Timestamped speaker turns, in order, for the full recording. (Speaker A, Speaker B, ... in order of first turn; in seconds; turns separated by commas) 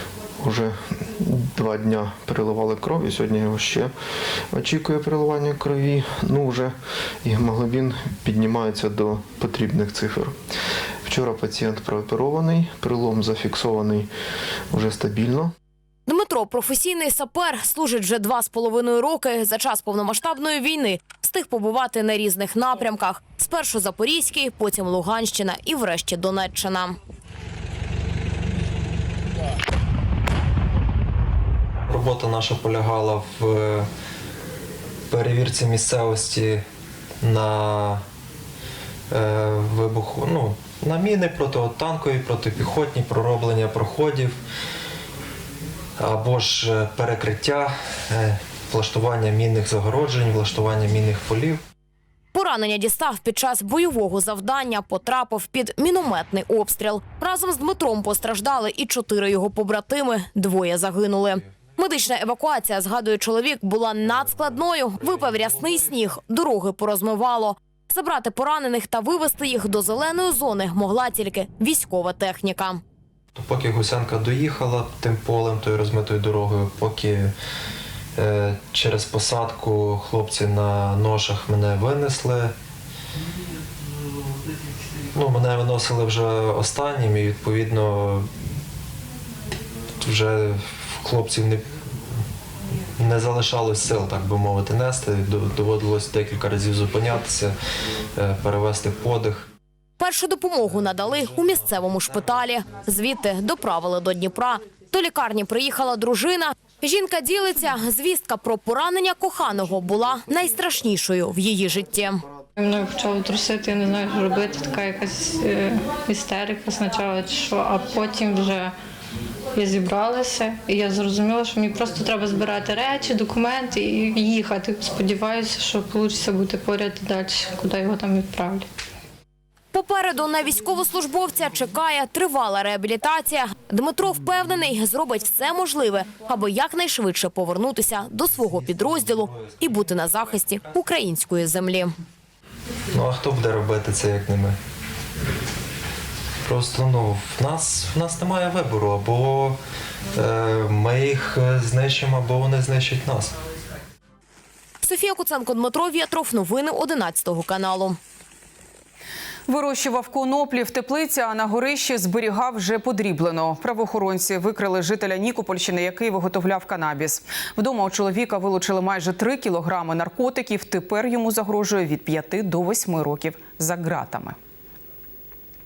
Speaker A: 0.4-3.9, Speaker A: 4.5-6.7, Speaker A: 7.2-10.4, Speaker A: 11.0-14.1, Speaker A: 14.7-15.5, Speaker B: 16.1-27.0, Speaker C: 31.9-33.9, Speaker C: 35.1-36.6, Speaker C: 37.2-38.0, Speaker C: 39.1-44.4, Speaker C: 46.0-51.6, Speaker B: 52.3-72.8, Speaker C: 73.3-77.3, Speaker C: 78.2-82.5, Speaker C: 85.1-88.3, Speaker C: 90.0-91.7, Speaker C: 93.0-97.5, Speaker C: 98.2-99.5, Speaker B: 100.0-112.2, Speaker D: 112.6-118.7, Speaker D: 119.5-128.7, Speaker B: 129.7-141.9, Speaker C: 138.4-140.7, Speaker C: 142.9-144.6, Speaker C: 146.4-149.6, Speaker C: 150.1-153.3, Speaker B: 154.8-158.0, Speaker E: 159.5-174.4